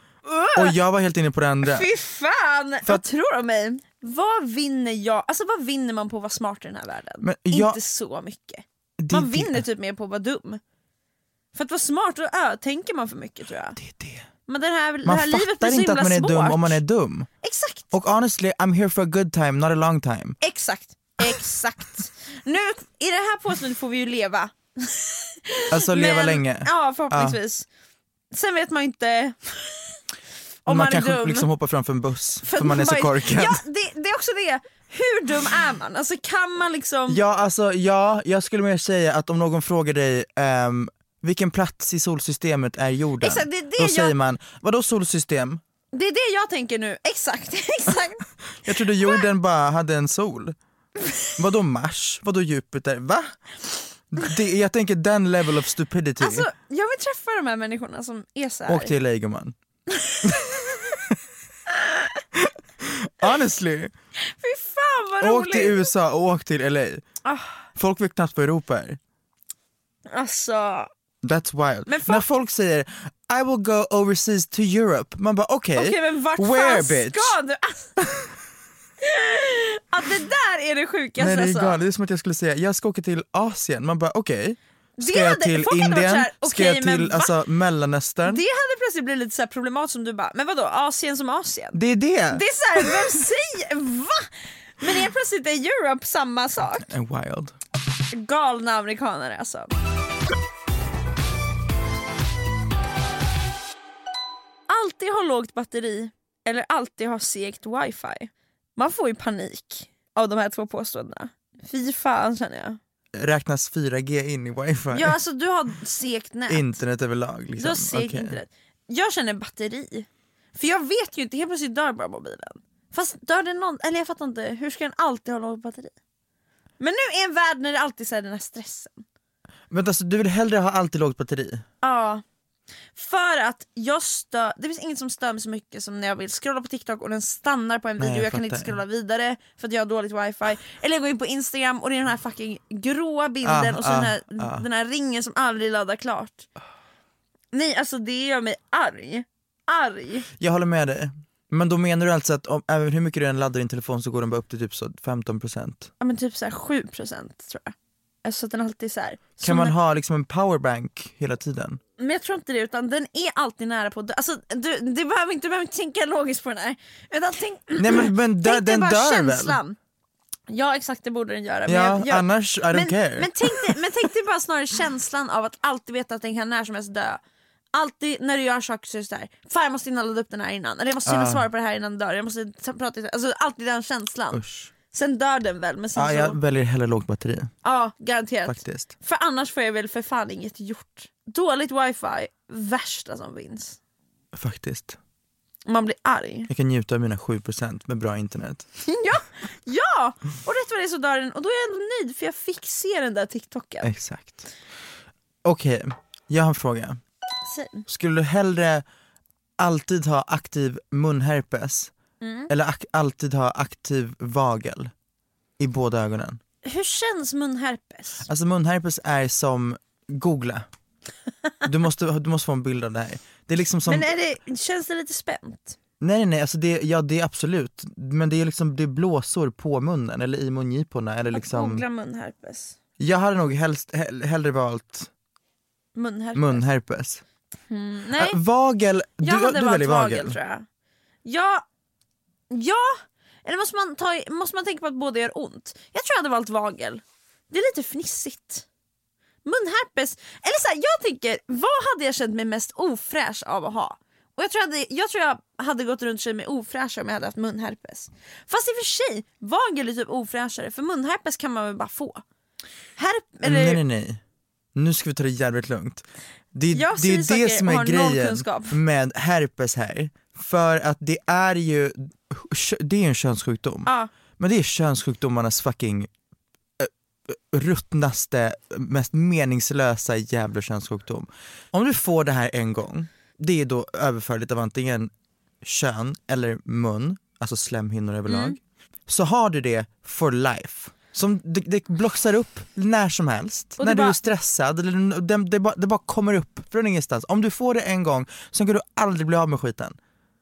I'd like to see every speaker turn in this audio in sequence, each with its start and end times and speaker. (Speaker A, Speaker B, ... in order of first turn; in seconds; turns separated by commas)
Speaker A: 0.2-0.8, Speaker B: 0.5-1.9, Speaker A: 1.6-10.6, Speaker B: 7.2-7.8, Speaker B: 9.0-9.6, Speaker A: 11.5-13.8, Speaker B: 13.8-14.2, Speaker A: 14.5-16.8, Speaker B: 15.0-17.3, Speaker A: 17.4-17.9, Speaker B: 17.9-20.4, Speaker A: 20.4-27.6, Speaker B: 25.7-27.4, Speaker A: 28.3-29.5, Speaker A: 30.6-31.5, Speaker B: 30.6-33.6, Speaker A: 32.4-37.2, Speaker B: 37.1-45.6, Speaker A: 43.2-44.1, Speaker A: 45.9-48.2, Speaker B: 48.6-50.5, Speaker B: 51.4-53.3, Speaker B: 54.1-56.5, Speaker A: 56.2-58.9, Speaker B: 58.6-59.5, Speaker A: 59.9-60.8, Speaker A: 61.7-62.2, Speaker B: 62.3-63.9, Speaker A: 64.2-65.9, Speaker B: 65.2-67.0, Speaker A: 67.2-67.7, Speaker B: 67.7-69.0, Speaker A: 70.1-70.9, Speaker B: 71.2-77.4, Speaker A: 71.8-72.3, Speaker A: 75.7-78.1, Speaker A: 79.0-81.8, Speaker B: 81.2-88.4, Speaker A: 85.0-87.3, Speaker A: 88.2-91.8, Speaker B: 91.7-93.1, Speaker A: 92.3-96.9, Speaker B: 96.8-97.5, Speaker A: 98.1-99.7, Speaker A: 104.7-112.8, Speaker B: 113.1-115.2, Speaker A: 114.9-116.8, Speaker B: 116.5-118.4, Speaker A: 117.5-125.9, Speaker A: 126.8-129.0, Speaker B: 129.7-131.6, Speaker A: 131.8-132.2, Speaker A: 132.9-146.5, Speaker B: 138.0-138.8, Speaker B: 143.4-144.7, Speaker A: 147.5-150.3, Speaker B: 150.4-155.9, Speaker A: 156.0-159.8, Speaker B: 159.4-161.8, Speaker A: 162.0-169.8, Speaker B: 167.8-169.6, Speaker A: 170.5-177.2, Speaker B: 171.7-173.8, Speaker A: 177.7-186.4, Speaker B: 181.1-181.4, Speaker B: 184.3-184.7, Speaker B: 185.9-187.5, Speaker A: 187.6-193.8, Speaker B: 188.4-188.9, Speaker B: 194.3-195.0, Speaker A: 195.7-196.5, Speaker B: 196.5-198.7, Speaker A: 198.8-203.9, Speaker B: 203.8-204.4, Speaker B: 205.4-207.0, Speaker A: 207.4-207.9, Speaker B: 207.9-208.8, Speaker B: 209.6-211.9, Speaker A: 212.2-212.5, Speaker B: 212.5-214.9, Speaker B: 215.6-216.4, Speaker A: 216.6-218.3, Speaker B: 218.3-220.7, Speaker B: 221.6-224.1, Speaker A: 223.8-225.8, Speaker B: 226.0-231.8, Speaker A: 231.3-232.8, Speaker B: 233.0-235.1, Speaker A: 235.9-236.6, Speaker B: 236.3-237.2, Speaker A: 237.7-238.4, Speaker B: 238.1-240.4, Speaker A: 239.2-240.6, Speaker A: 241.2-241.6, Speaker A: 242.5-248.7, Speaker A: 249.4-262.2, Speaker A: 263.0-263.8, Speaker B: 263.4-264.2, Speaker B: 264.7-276.1, Speaker A: 266.7-268.8, Speaker B: 276.8-285.1, Speaker B: 285.6-300.0, Speaker A: 288.3-288.6, Speaker A: 293.8-294.2